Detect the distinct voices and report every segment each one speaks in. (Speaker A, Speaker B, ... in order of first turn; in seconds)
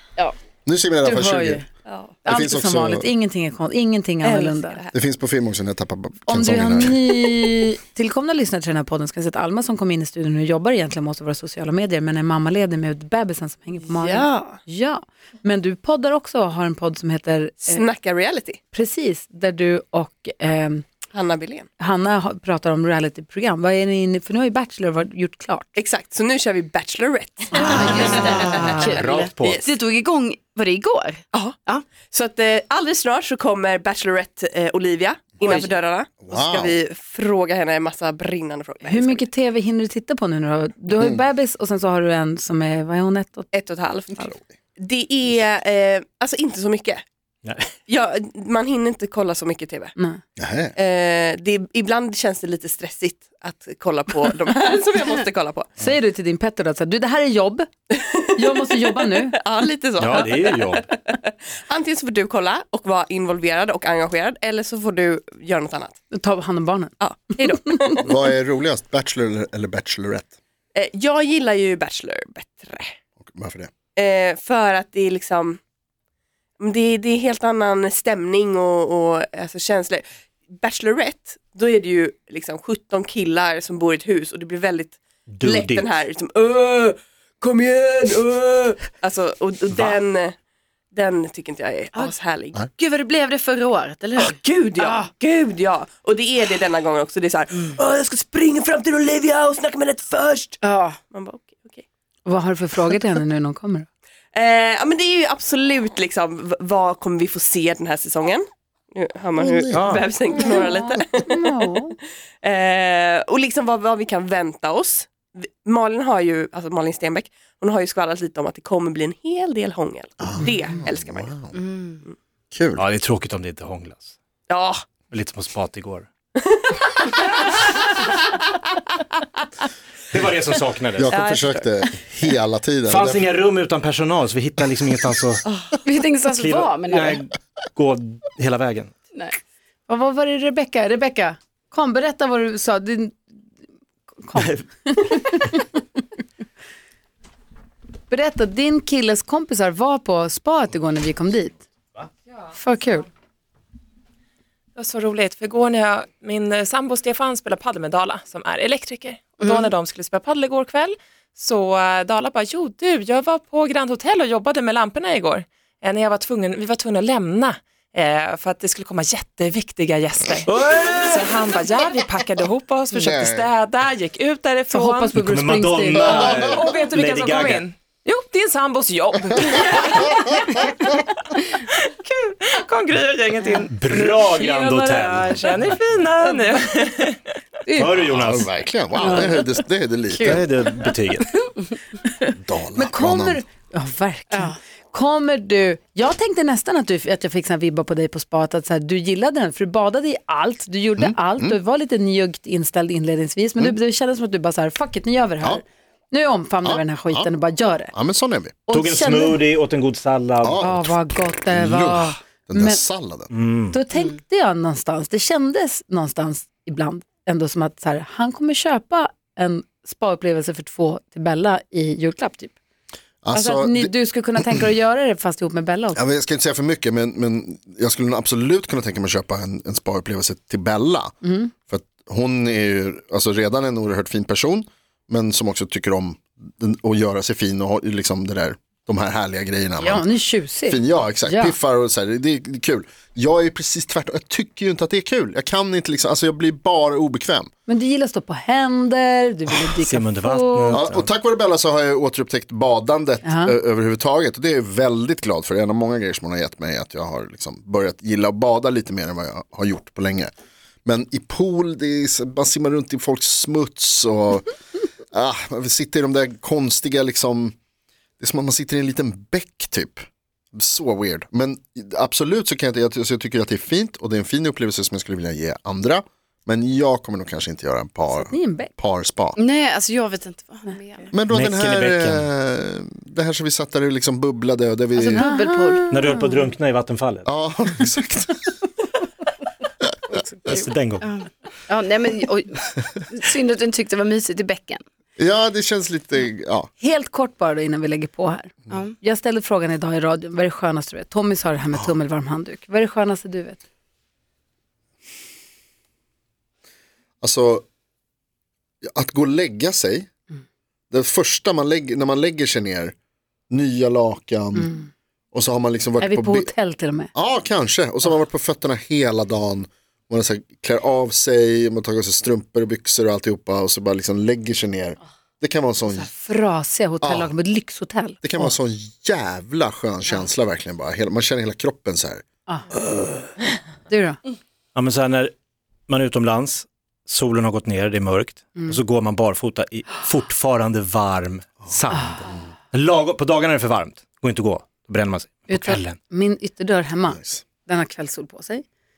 Speaker A: 0.7-1.6, 2.3-3.1, 4.9-7.1, 36.2-36.8, 50.4-50.7, 68.0-70.3, 73.2-73.7, 109.3-110.0, 120.2-121.5, 122.5-122.8, 131.0-133.2, 172.9-173.5, 175.9-176.8, 188.0-190.4, 192.3-193.4, 201.0-201.6, 206.6-207.3, 207.9-208.6, 210.4-213.3, 223.2-224.6, 225.9-231.1, 231.7-240.0, 240.7-247.5, 250.7-260.3, 260.8-264.5, 265.1-267.5, 268.2-279.4, 281.1-285.3, 287.3-288.4, 295.2-296.7, 307.2-307.6, 308.8-310.1, 310.9-312.9, 313.5-314.7, 315.3-316.5, 317.1-326.1, 327.0-327.3, 328.2-332.2, 332.8-333.2, 347.1-347.4
Speaker B: 1.0-1.6, 2.2-4.8, 6.3-17.8, 18.7-20.8, 21.8-25.8, 27.6-28.8, 38.8-43.5, 55.8-57.7, 58.3-59.4, 66.1-67.5, 102.2-103.9, 110.3-112.0, 139.9-143.2, 144.2-145.8, 148.1-151.6, 152.5-153.1, 174.7-176.3, 192.8-207.9, 208.7-209.4, 210.6-212.8, 213.7-222.5, 223.3-226.0, 231.2-231.5, 239.8-241.6, 247.7-250.8, 253.2-253.5, 278.1-278.7, 285.1-286.3, 296.8-303.6, 314.6-314.9, 316.0-317.1, 325.9-328.5, 333.9-334.2, 345.5-348.6
Speaker C: 1.9-2.1, 4.2-4.9, 17.6-18.6, 21.1-21.7, 25.8-28.8, 32.1-39.3, 43.5-47.0, 47.9-50.0, 50.7-55.7, 57.9-66.0, 67.0-68.0, 70.7-72.9, 73.9-75.6, 76.6-90.3, 90.9-92.6, 94.2-100.6, 101.1-101.8, 104.3-111.5, 112.4-121.3, 124.5-124.8, 126.4-127.4, 131.1-131.6
Speaker D: 27.6-31.9, 92.7-95.1, 100.6-101.0, 121.5-122.0, 135.4-137.2, 159.4-159.7, 189.0-190.5, 194.3-194.6, 279.4-281.1, 284.9-286.0, 291.0-294.8, 298.7-298.9
Speaker E: 27.7-29.6, 47.4-47.7, 60.0-60.9, 85.3-86.0, 109.7-110.0, 122.8-124.1, 125.0-126.1, 130.1-131.2, 132.8-135.4, 136.3-138.9, 170.4-171.3, 175.1-177.7, 183.7-185.6, 187.7-188.5, 190.2-191.3, 208.7-210.7, 213.3-213.8, 249.8-251.1, 281.3-282.3, 285.9-287.2, 290.4-291.1, 334.7-335.3, 335.9-346.0
Speaker F: 154.8-170.5, 171.0-175.1, 176.0-181.0, 181.8-187.2